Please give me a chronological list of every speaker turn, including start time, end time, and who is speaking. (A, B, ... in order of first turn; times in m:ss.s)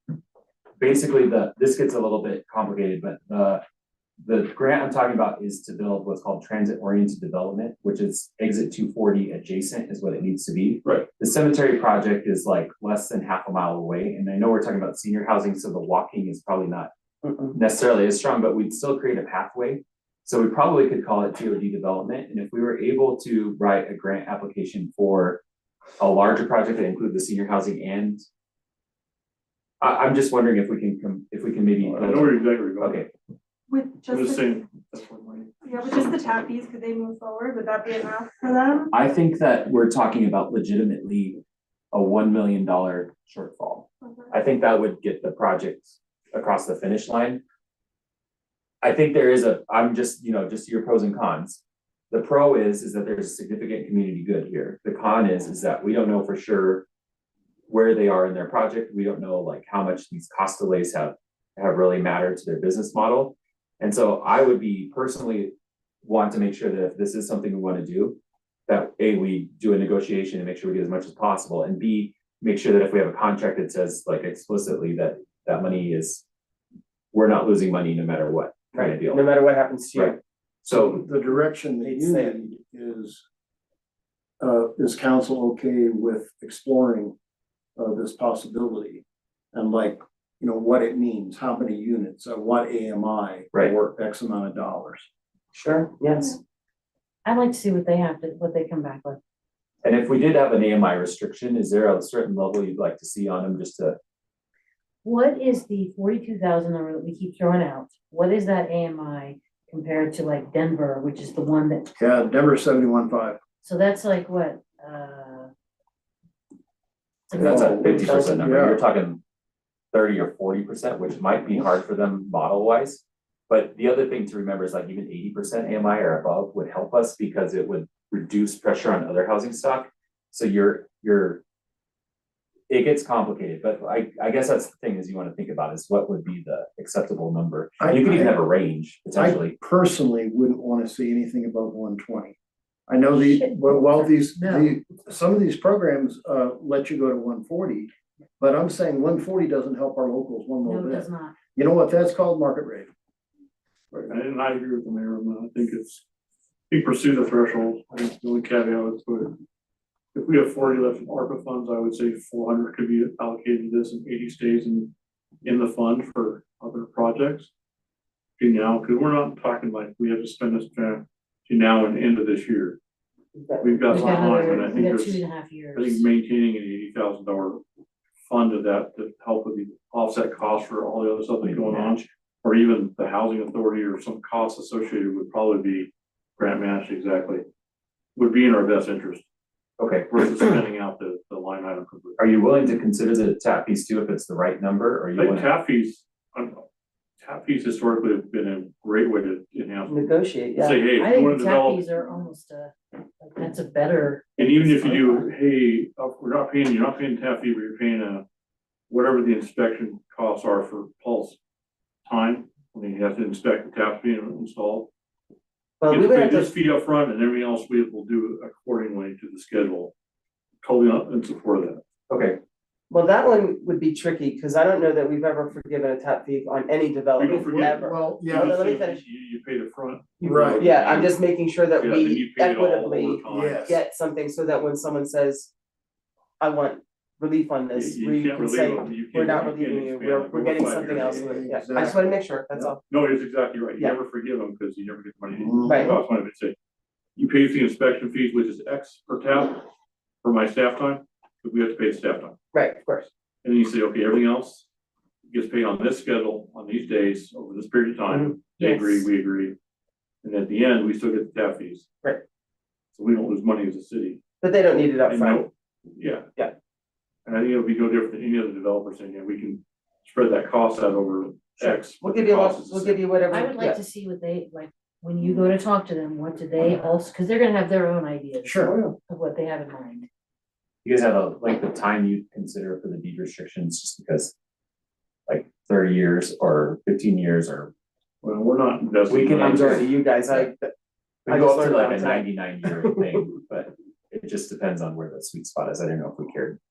0:00.8-0:03.6 A
0:04.2-0:16.9 A
0:17.5-0:25.4 A
0:26.0-0:28.2 A
0:29.8-0:33.1 A
0:31.8-0:33.0 B
0:33.7-0:34.6 C
0:34.1-0:36.1 B
0:35.6-0:38.9 C
0:38.9-0:47.4 A
0:44.0-0:44.3 C
0:48.8-0:56.8 A
0:57.7-1:05.5 A
1:06.0-1:08.2 A
1:08.7-1:16.2 A
1:17.1-1:19.3 A
1:18.7-1:20.2 D
1:19.9-1:21.0 A
1:20.7-1:23.2 E
1:21.8-1:22.4 D
1:24.4-1:27.1 E
1:27.8-1:35.1 E
1:35.5-1:36.4 D
1:37.2-1:39.2 F
1:39.8-1:44.0 A
1:45.0-1:51.9 F
1:52.0-1:53.4 E
1:53.6-1:55.5 F
1:57.3-1:58.1 F
1:57.4-1:59.2 A
1:57.4-1:58.8 E
1:59.9-2:11.4 A
2:12.7-2:19.5 A
2:17.8-2:18.4 E
2:19.1-2:22.3 E
2:22.9-2:32.9 E
2:23.1-2:24.7 F
2:30.6-2:31.4 F
2:33.9-2:36.0 B
2:36.7-2:39.4 B
2:40.1-2:47.5 B
2:48.4-2:52.8 B
2:53.3-2:54.8 D
2:53.6-2:55.2 B
2:53.9-2:56.0 F
2:55.7-2:57.6 B
2:58.2-3:07.4 B
3:01.4-3:02.0 A
3:08.1-3:09.2 B
3:09.8-3:10.1 A
3:10.1-3:12.2 B
3:12.2-3:15.5 A
3:15.2-3:16.6 B
3:17.2-3:20.0 B
3:19.9-3:20.9 D
3:20.6-3:21.8 B
3:20.9-3:25.2 F
3:24.4-3:28.2 B
3:28.9-3:31.4 B
3:32.0-3:34.9 B
3:35.8-3:36.5 D
3:35.9-3:39.9 B
3:40.6-3:41.8 B
3:42.1-3:42.4 A
3:42.9-3:49.0 D
3:47.2-3:53.8 B
3:47.5-3:48.5 E
3:50.2-3:55.5 D
3:50.2-3:50.7 E
3:53.2-3:53.8 E
3:56.4-4:02.8 D
3:57.7-4:01.4 B
4:00.7-4:02.7 E
4:02.9-4:06.5 B
4:05.3-4:06.0 E
4:05.6-4:06.0 D
4:07.2-4:09.6 B
4:10.2-4:12.4 B
4:12.5-4:13.1 D
4:13.4-4:14.6 B
4:15.3-4:19.6 B
4:18.1-4:19.0 D
4:20.2-4:21.8 B
4:22.9-4:24.2 B
4:24.4-4:25.4 D
4:25.0-4:26.3 B
4:27.2-4:33.0 B
4:31.6-4:33.8 D
4:33.3-4:40.1 F
4:38.4-4:38.8 E
4:40.8-4:44.3 A
4:45.3-4:47.7 A
4:48.2-4:49.9 B
4:49.1-4:50.5 A
4:49.6-4:50.7 D
4:51.2-4:53.2 D
4:51.3-4:56.6 A